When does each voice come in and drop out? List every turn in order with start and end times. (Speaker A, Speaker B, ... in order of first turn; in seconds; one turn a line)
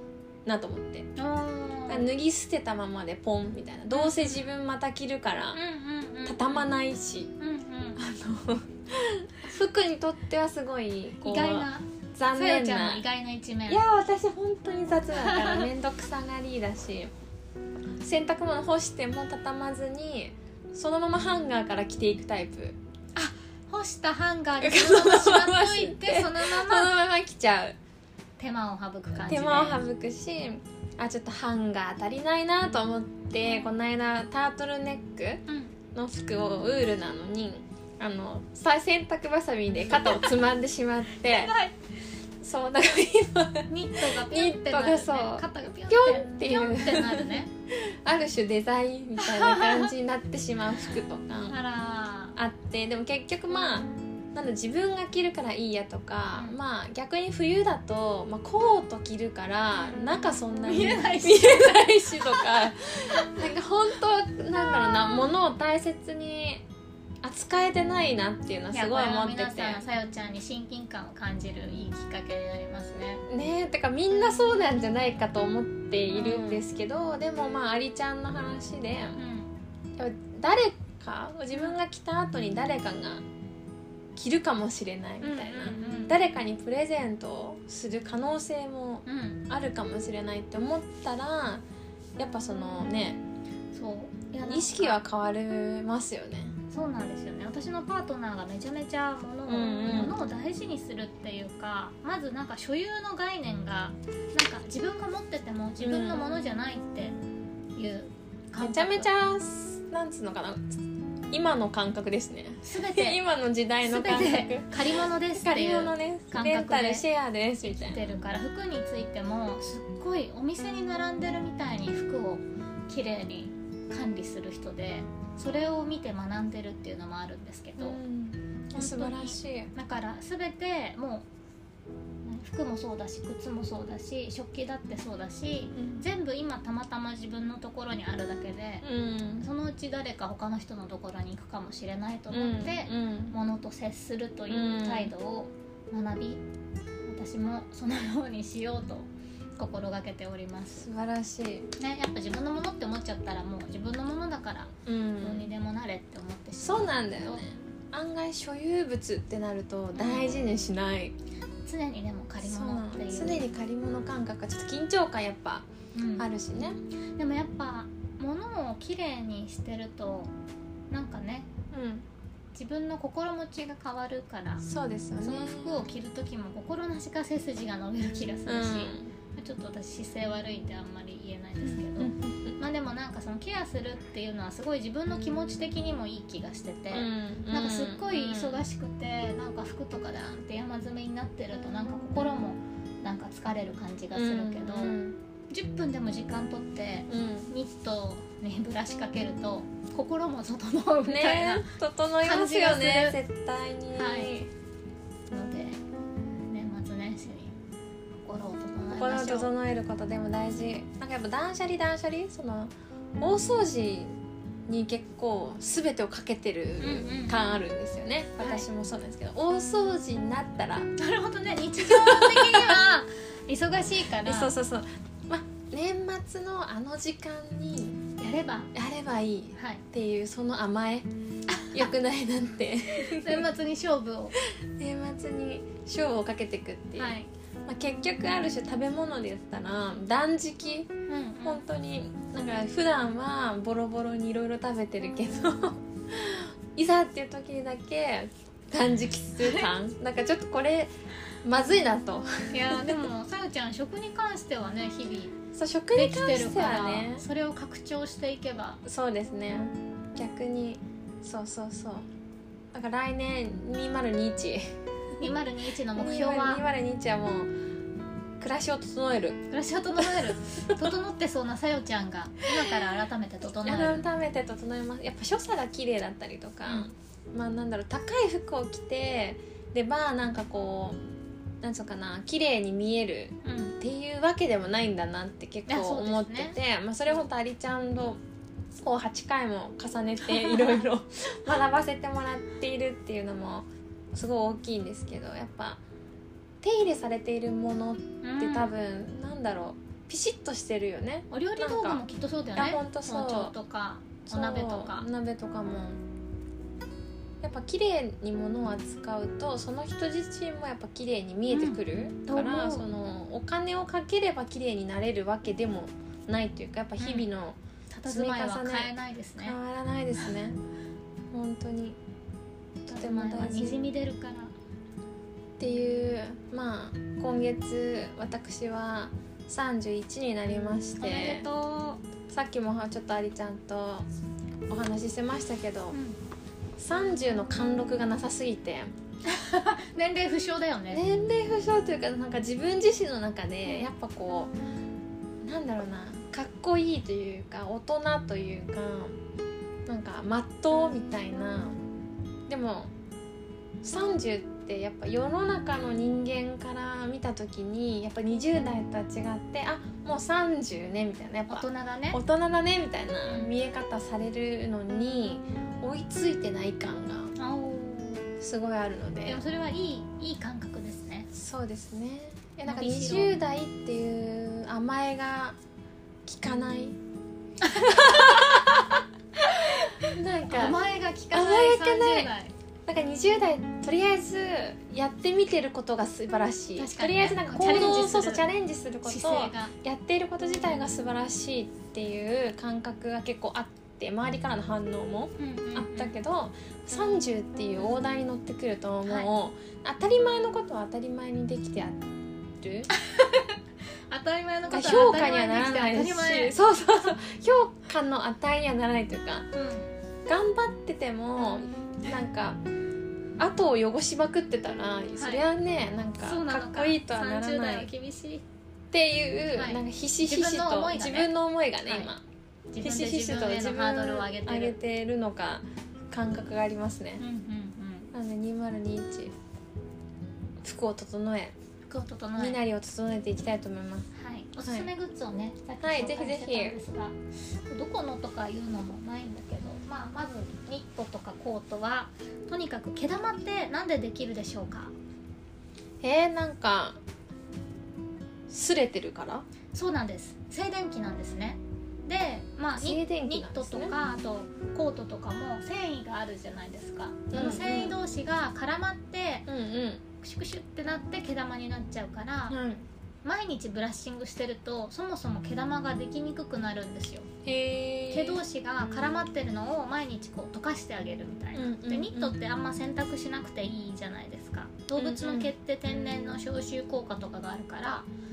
Speaker A: 0.5-1.1
Speaker B: 1.1-2.1
Speaker A: 1.9-5.6
Speaker B: 3.9-4.4
Speaker B: 5.5-6.7
Speaker A: 6.2-7.3
Speaker B: 7.4-8.0
Speaker A: 8.0-13.0
Speaker B: 11.2-13.8
Speaker A: 13.7-17.1
Speaker B: 15.1-15.7
Speaker A: 18.0-22.8
Speaker B: 23.1-26.9
Speaker A: 24.6-27.8
Speaker B: 28.4-29.8
Speaker A: 29.2-35.4
Speaker B: 35.5-35.7
Speaker A: 35.9-41.5
Speaker B: 41.2-41.8
Speaker A: 42.4-51.6
Speaker B: 43.7-47.5
Speaker B: 49.2-49.9
Speaker B: 51.5-52.4
Speaker A: 52.4-66.6
Speaker B: 59.8-63.4
Speaker A: 67.2-69.8
Speaker B: 68.7-73.2
Speaker A: 73.3-79.2
Speaker B: 76.1-76.6
Speaker B: 79.2-79.5
Speaker A: 80.0-83.2
Speaker A: 84.2-91.6
Speaker B: 85.2-86.2
Speaker B: 89.0-89.4
Speaker A: 92.2-93.2
Speaker B: 93.7-95.0
Speaker A: 94.4-96.5
Speaker B: 96.7-107.2
Speaker A: 99.5-100.1
Speaker A: 105.8-106.2
Speaker B: 107.8-109.1
Speaker A: 108.6-110.8
Speaker A: 111.3-118.1
Speaker B: 112.6-113.2
Speaker B: 113.8-117.0
Speaker B: 117.6-128.0
Speaker A: 127.8-129.7
Speaker B: 128.7-131.3
Speaker B: 132.2-138.8
Speaker A: 135.7-136.0
Speaker A: 138.8-139.4
Speaker B: 139.4-146.4
Speaker A: 142.3-143.3
Speaker A: 144.5-145.1
Speaker B: 147.1-150.9
Speaker A: 150.7-151.7
Speaker B: 151.8-157.5
Speaker A: 154.8-155.5
Speaker A: 156.6-161.1
Speaker B: 159.9-160.3
Speaker B: 161.6-163.5
Speaker A: 162.4-166.8
Speaker B: 165.9-166.3
Speaker B: 167.2-170.3
Speaker B: 170.9-171.5
Speaker A: 171.7-172.1
Speaker B: 172.5-174.6
Speaker A: 174.6-175.9
Speaker B: 175.2-195.0
Speaker A: 178.4-179.1
Speaker A: 182.0-182.6
Speaker A: 186.9-188.6
Speaker A: 194.1-195.2
Speaker B: 195.5-203.2
Speaker A: 197.1-197.5
Speaker A: 201.1-204.5
Speaker B: 203.9-204.4
Speaker B: 205.3-205.8
Speaker B: 206.5-207.6
Speaker B: 208.2-209.5
Speaker A: 208.9-220.9
Speaker B: 216.8-217.4
Speaker B: 218.4-218.7
Speaker B: 221.0-224.5
Speaker A: 221.8-222.8
Speaker A: 224.2-228.0
Speaker B: 228.2-228.7
Speaker A: 228.7-231.1
Speaker B: 229.6-229.8
Speaker B: 231.5-231.9
Speaker A: 231.6-233.5
Speaker B: 232.9-234.4
Speaker A: 234.4-240.9
Speaker B: 236.9-237.3
Speaker B: 241.1-241.6
Speaker A: 241.4-250.9
Speaker A: 251.4-253.0
Speaker B: 252.5-255.4
Speaker A: 255.5-257.2
Speaker B: 255.9-258.8
Speaker A: 258.8-262.1
Speaker A: 262.7-264.7
Speaker B: 265.2-266.6
Speaker A: 265.9-267.5
Speaker A: 268.4-269.4
Speaker B: 269.5-274.0
Speaker A: 270.0-270.8
Speaker A: 273.6-281.0
Speaker B: 276.6-276.9
Speaker A: 281.6-288.2
Speaker B: 283.4-283.8
Speaker B: 285.7-286.6
Speaker A: 288.8-295.8
Speaker B: 290.5-290.7
Speaker A: 296.6-302.0
Speaker B: 298.2-298.7
Speaker B: 301.3-305.1
Speaker A: 302.6-303.5
Speaker A: 304.3-306.0
Speaker A: 307.4-320.6
Speaker B: 311.5-312.9
Speaker B: 317.0-317.3
Speaker B: 317.9-319.6
Speaker A: 321.3-322.0
Speaker B: 322.9-324.5
Speaker A: 322.9-323.8
Speaker A: 325.6-331.4
Speaker B: 331.0-332.0
Speaker A: 332.3-334.1
Speaker A: 334.7-336.0
Speaker B: 335.9-336.2
Speaker A: 336.8-338.9
Speaker B: 339.2-341.0
Speaker A: 340.9-344.5
Speaker A: 345.4-349.2
Speaker A: 349.9-351.8
Speaker A: 352.5-352.9
Speaker A: 353.8-367.3
Speaker B: 361.5-362.2
Speaker B: 363.2-363.5
Speaker B: 367.4-368.3
Speaker A: 368.4-369.4
Speaker B: 369.2-371.3
Speaker A: 371.3-375.6
Speaker B: 372.6-373.3
Speaker A: 376.2-377.0
Speaker B: 377.6-378.8
Speaker A: 377.6-380.8
Speaker B: 379.4-382.5
Speaker A: 381.3-382.3
Speaker A: 382.9-402.0
Speaker B: 386.8-388.4
Speaker B: 389.0-389.7
Speaker B: 395.4-396.1
Speaker B: 399.1-399.3
Speaker A: 402.6-402.9
Speaker B: 402.9-403.6
Speaker B: 404.1-406.6
Speaker A: 404.7-409.5
Speaker B: 409.5-409.9
Speaker A: 410.3-412.6
Speaker A: 413.4-417.9
Speaker B: 415.1-415.4
Speaker B: 416.2-418.4
Speaker A: 418.9-422.2
Speaker B: 419.5-421.3
Speaker B: 421.9-422.1
Speaker B: 422.7-424.8
Speaker A: 422.8-427.2
Speaker B: 427.2-428.1
Speaker A: 428.1-429.3
Speaker A: 430.6-431.6
Speaker B: 431.9-432.6
Speaker A: 432.4-434.1
Speaker B: 434.1-437.2
Speaker A: 434.6-434.9
Speaker A: 435.8-436.8
Speaker B: 437.7-444.9
Speaker A: 446.0-447.0
Speaker A: 448.5-449.4
Speaker B: 449.7-459.5
Speaker A: 452.8-453.9
Speaker A: 457.3-458.0
Speaker A: 459.5-460.0
Speaker B: 460.2-462.6
Speaker A: 462.5-462.9
Speaker B: 463.2-467.3
Speaker A: 467.4-468.4
Speaker B: 468.1-478.1
Speaker A: 471.5-472.4
Speaker A: 474.9-475.5